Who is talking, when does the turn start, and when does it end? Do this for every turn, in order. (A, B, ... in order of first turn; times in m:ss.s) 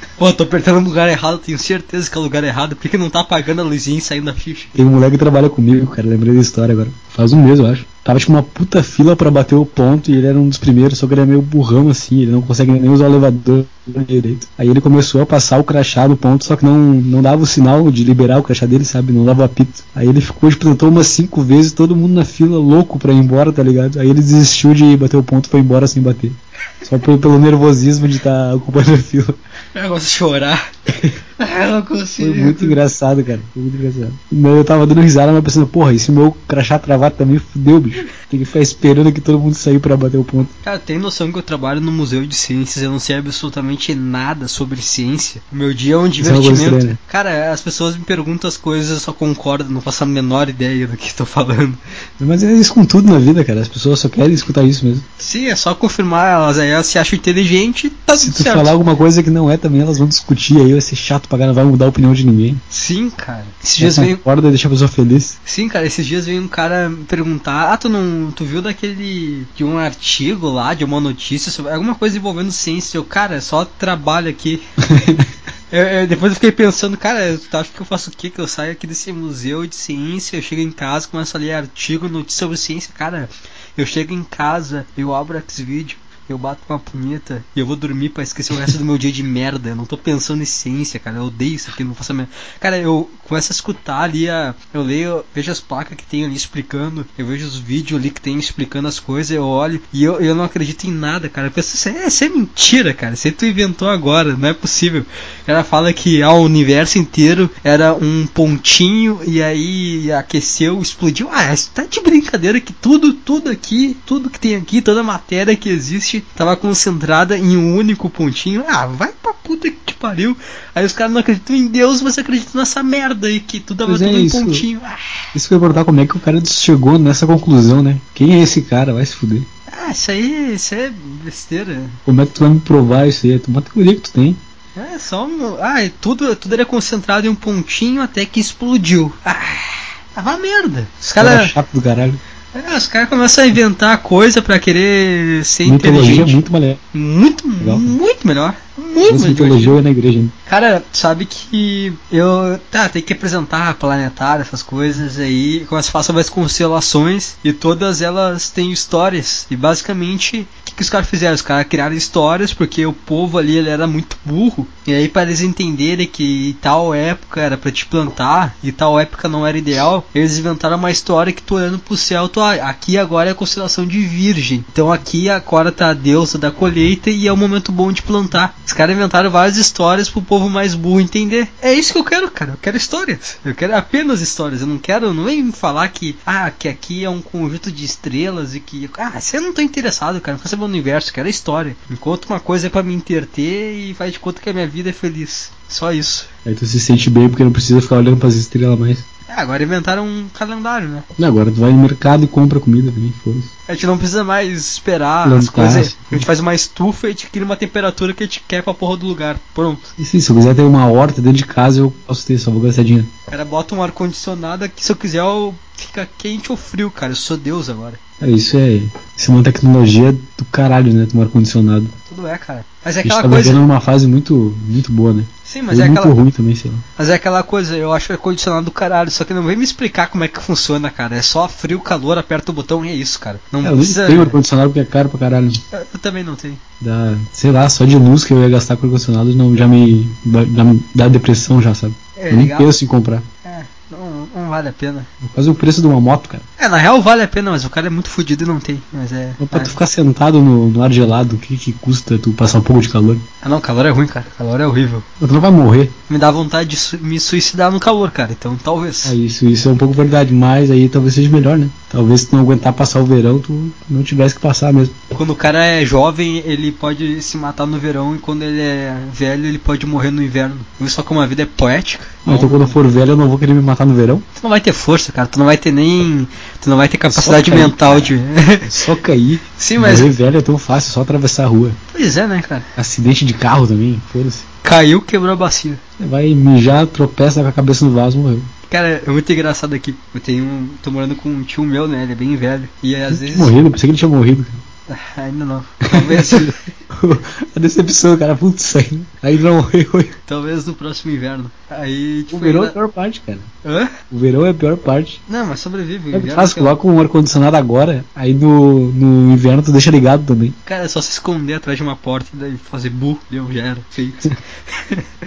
0:00.2-0:04.8 A
0:04.8-0:29.4 B
0:29.8-0:30.7 A
0:31.4-0:32.8 A
0:32.2-0:40.5 B
0:40.6-0:51.8 A
0:46.2-0:47.0 B
0:52.2-0:55.1 B
0:55.2-0:58.7 A
0:58.2-1:02.6 B
1:02.7-1:04.2 A
1:03.8-1:05.4 B
1:05.4-1:14.6 A
1:14.9-1:15.3 B
1:15.7-2:05.3 A
2:03.9-2:04.7 B
2:05.3-2:09.5 B
2:09.7-2:12.0 A
2:12.1-2:14.4 B
2:14.8-2:21.6 A
2:21.2-2:22.2 B
2:22.5-2:26.4 A
2:25.6-2:26.8 B
2:26.9-2:29.8 A
2:27.6-2:28.0 B
2:29.0-2:30.3 B
2:30.5-3:16.3 A
3:16.4-3:19.0 B
3:19.3-3:21.1 A
3:21.2-3:23.5 B
3:23.7-3:29.9 A
3:25.2-3:26.2 B
3:30.0-3:33.1 B
3:33.3-3:38.0 A
3:38.2-3:41.9 B
3:42.1-3:43.6 A
3:43.0-3:46.8 B
3:45.4-3:46.2 A
3:47.0-3:54.4 A
3:53.6-3:55.6 B
3:55.7-3:56.6 A
3:56.8-4:03.2 B
4:02.2-4:02.7 A
4:03.4-4:05.1 A
4:05.2-4:06.5 B
4:06.6-4:09.7 A
4:09.4-4:13.2 B
4:13.4-4:15.1 A
4:15.2-4:15.9 B
4:16.1-4:19.2 A
4:19.0-4:25.0 B
4:25.1-4:32.8 A
4:32.2-4:34.3 B
4:34.4-4:38.8 A
4:37.1-4:38.1 B
4:38.6-4:41.8 B
4:39.6-4:40.1 A
4:41.9-4:42.7 A
4:42.8-4:44.5 B
4:44.6-4:45.8 A
4:46.0-4:48.5 B
4:48.7-4:53.6 A
4:53.1-4:54.6 B
4:54.9-4:56.6 A
4:55.8-5:00.2 B
5:00.3-5:02.8 A
5:02.3-5:03.5 B
5:03.6-5:03.9 A
5:04.1-5:05.2 B
5:05.3-5:06.8 A
5:06.1-5:10.6 B
5:10.6-5:15.0 A